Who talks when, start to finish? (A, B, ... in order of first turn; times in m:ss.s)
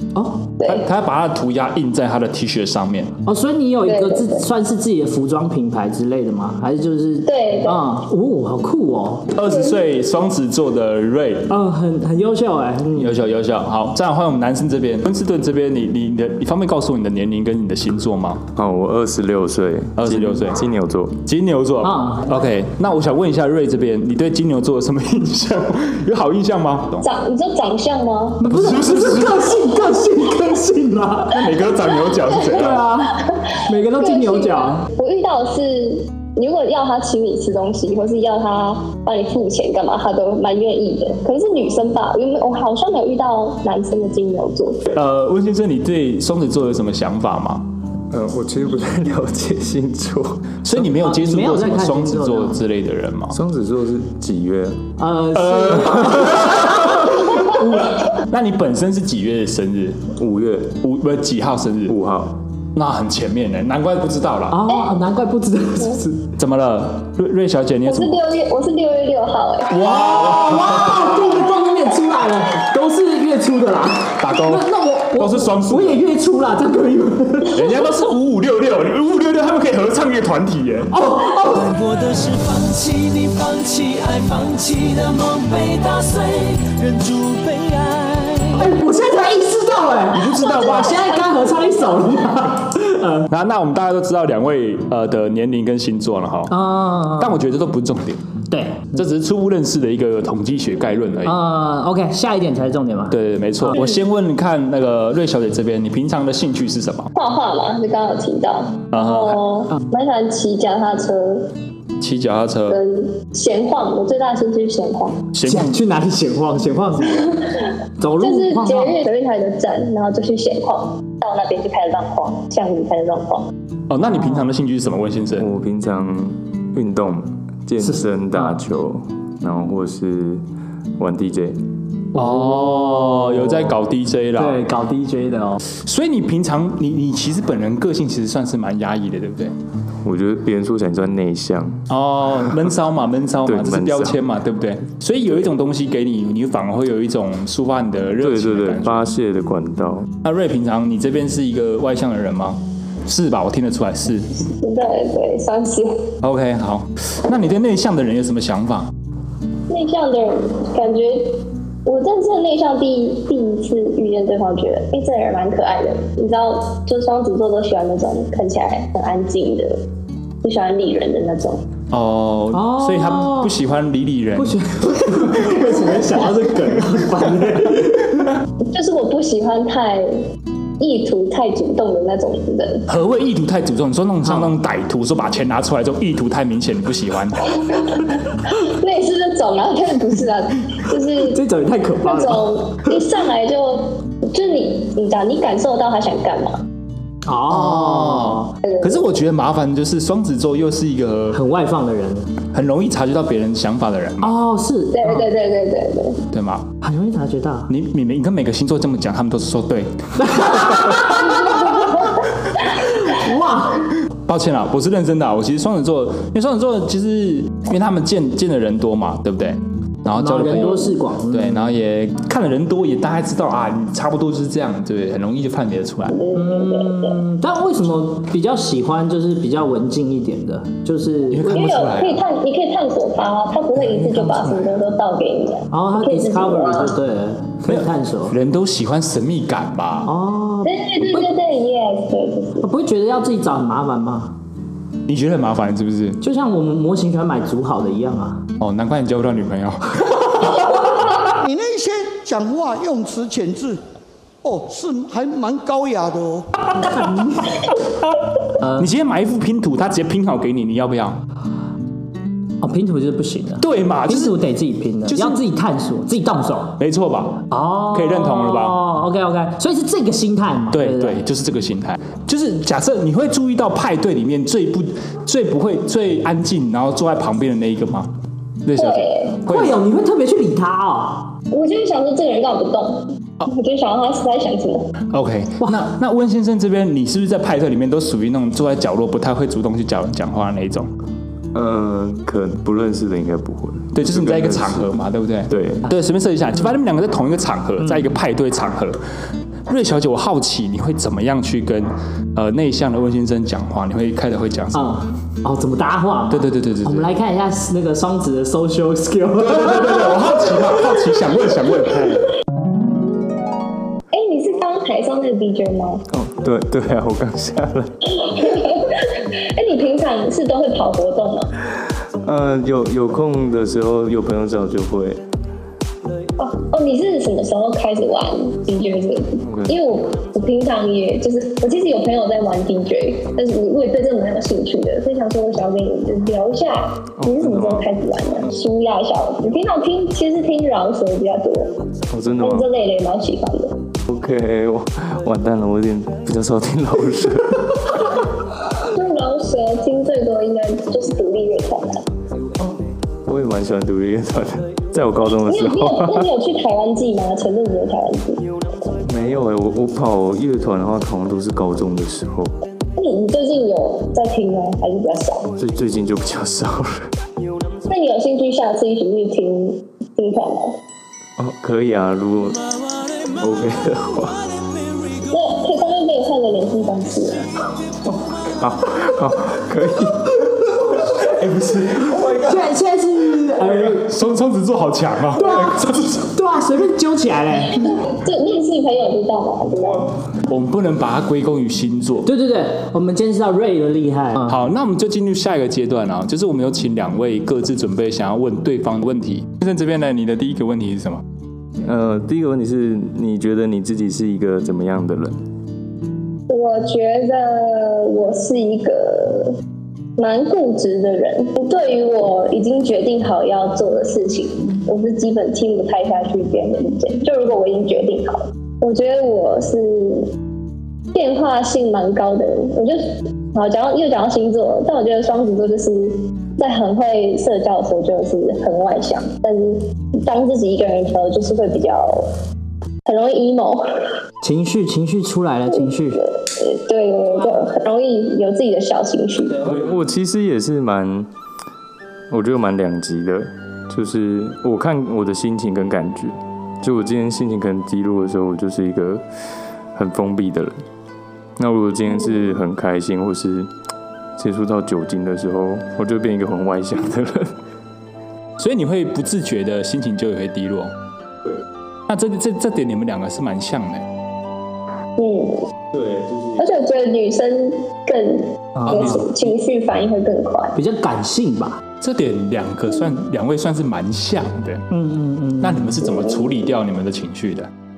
0:00.1-0:00.5 A
0:00.6-0:00.8 B
0:00.6-0:03.1 C
0:03.2-0:09.3 A
0:03.8-0:04.4 B
0:07.2-0:07.8 B
0:09.3-0:11.5 C
0:09.4-0:09.8 B
0:11.5-0:13.2 A
0:12.9-0:18.4 C
0:18.5-0:21.2 D
0:20.0-0:20.6 C
0:21.2-0:27.1 C
0:21.8-0:22.3 A
0:27.0-0:28.4 B
0:28.4-0:31.8 A
0:28.4-0:29.6 C
0:31.3-0:32.8 C
0:32.3-0:34.9 A
0:33.2-0:44.8 B
0:44.9-0:47.6 C
0:48.1-0:50.4 D
0:50.6-0:53.4 C
0:50.7-0:52.6 A
0:53.3-0:54.8 D
0:55.0-0:57.8 A
0:55.3-1:00.0 C
1:00.2-1:00.8 D
1:00.8-1:02.0 C
1:01.9-1:02.4 D
1:02.7-1:04.6 C
1:04.5-1:06.2 A
1:06.4-1:08.2 C
1:07.8-1:09.8 B
1:09.7-1:11.0 C
1:09.8-1:17.7 A
1:14.2-1:16.0 C
1:17.5-1:20.9 C
1:20.9-1:21.7 A
1:21.5-1:28.7 E
1:28.5-1:33.3 A
1:30.1-1:31.0 C
1:30.4-1:32.0 B
1:33.3-1:36.5 C
1:36.5-1:37.4 A
1:37.2-1:38.2 C
1:38.5-1:39.0 A
1:38.9-1:41.4 C
1:41.2-1:43.8 A
1:43.1-1:47.1 C
1:47.1-1:51.5 B
1:48.9-1:49.4 C
1:52.0-1:52.8 C
1:52.7-1:55.2 B
1:55.3-1:55.8 C
1:55.4-1:57.4 A
1:58.0-1:59.0 A
1:58.2-2:03.5 B
2:03.9-2:05.5 C
2:04.1-2:04.4 A
2:05.3-2:10.4 D
2:07.9-2:08.5 A
2:11.0-2:11.6 D
2:12.1-2:13.8 A
2:12.1-2:14.6 C
2:14.4-2:15.6 A
2:15.8-2:19.5 C
2:20.0-2:21.8 D
2:21.9-2:29.1 C
2:23.4-2:24.2 D
2:28.2-2:30.1 D
2:30.2-2:34.3 C
2:34.4-2:36.0 B
2:36.2-2:38.9 C
2:39.7-2:49.8 B
2:50.4-2:51.6 B
2:51.9-2:54.6 C
2:52.5-2:53.6 A
2:54.4-2:58.2 A
2:55.2-2:55.8 C
2:58.7-3:00.1 B
3:00.8-3:02.8 B
3:02.9-3:07.5 C
3:04.2-3:04.5 A
3:08.5-3:11.4 B
3:11.3-3:13.0 A
3:12.0-3:16.6 B
3:17.2-3:18.5 A
3:17.5-3:21.4 C
3:18.6-3:19.0 B
3:21.3-3:22.3 A
3:22.5-3:24.3 C
3:24.2-3:25.3 A
3:24.9-3:26.2 B
3:26.3-3:26.7 C
3:26.8-3:27.7 A
3:27.7-3:31.0 C
3:30.2-3:31.8 A
3:31.6-3:32.1 B
3:33.0-3:33.9 A
3:34.3-3:46.2 C
3:40.1-3:41.7 A
3:46.1-3:47.2 B
3:46.3-3:51.6 A
3:51.3-3:52.2 C
3:51.5-3:56.9 B
3:55.7-3:58.4 A
3:57.7-4:00.1 C
4:00.0-4:01.3 A
4:00.6-4:02.7 B
4:02.6-4:04.3 A
4:05.1-4:06.2 C
4:06.2-4:08.4 A
4:08.6-4:09.8 C
4:11.3-4:13.8 F
4:14.4-4:16.5 F
4:16.8-4:17.6 A
4:18.6-4:18.9 A
4:18.7-4:21.2 C
4:22.6-4:26.8 A
4:23.6-4:24.4 C
4:25.1-4:25.4 C
4:26.8-4:28.8 C
4:27.5-4:31.2 A
4:30.7-4:38.1 C
4:38.6-4:39.8 C
4:38.8-4:39.4 B
4:39.5-4:41.3 A
4:41.5-4:44.9 B
4:45.1-4:50.9 C
4:51.5-4:55.8 D
4:53.9-4:59.0 C
4:57.8-4:58.1 A
4:59.7-5:05.0 C
5:04.7-5:10.1 A
5:06.3-5:07.1 C
5:09.4-5:12.3 C
5:14.1-5:16.0 B
5:16.1-5:17.9 D
5:18.2-5:21.5 B
5:22.2-5:25.2 D
5:26.4-5:41.7 B
5:29.4-5:29.8 D
5:37.2-5:37.9 D
5:42.1-5:42.7 D
5:42.4-5:43.7 B
5:44.1-5:47.8 D
5:48.9-5:52.0 B
5:52.6-5:56.3 D
5:55.4-5:58.4 B
5:59.0-6:02.5 D
6:03.0-6:05.5 B
6:05.6-6:07.1 D
6:07.9-6:10.8 B
6:11.4-6:12.6 D
6:13.4-6:14.4 D
6:15.3-6:17.4 B
6:18.0-6:20.3 D
6:21.3-6:22.4 C
6:22.2-6:24.1 A
6:23.9-6:26.3 C
6:25.4-6:27.9 A
6:28.0-6:30.1 B
6:30.4-6:32.3 C
6:32.2-6:34.5 A
6:34.4-6:41.2 C
6:41.8-6:45.4 D
6:46.5-6:49.6 B
6:50.2-7:00.3 B
7:01.1-7:12.3 B
7:13.0-7:14.0 B
7:14.4-7:16.2 A
7:15.7-7:19.7 B
7:19.6-7:21.3 D
7:22.3-7:29.2 D
7:29.9-7:30.8 D
7:31.6-7:33.7 D
7:34.4-7:37.6 D
7:38.6-7:40.9 C
7:42.1-7:44.0 C
7:45.2-7:45.7 B
7:45.9-7:46.6 D
7:46.6-7:50.8 B
7:48.8-7:49.2 A
7:48.9-7:49.2 C
7:50.8-7:51.8 A
7:52.0-7:54.8 C
7:54.9-7:56.0 A
7:55.6-7:57.7 C
7:56.0-7:56.5 B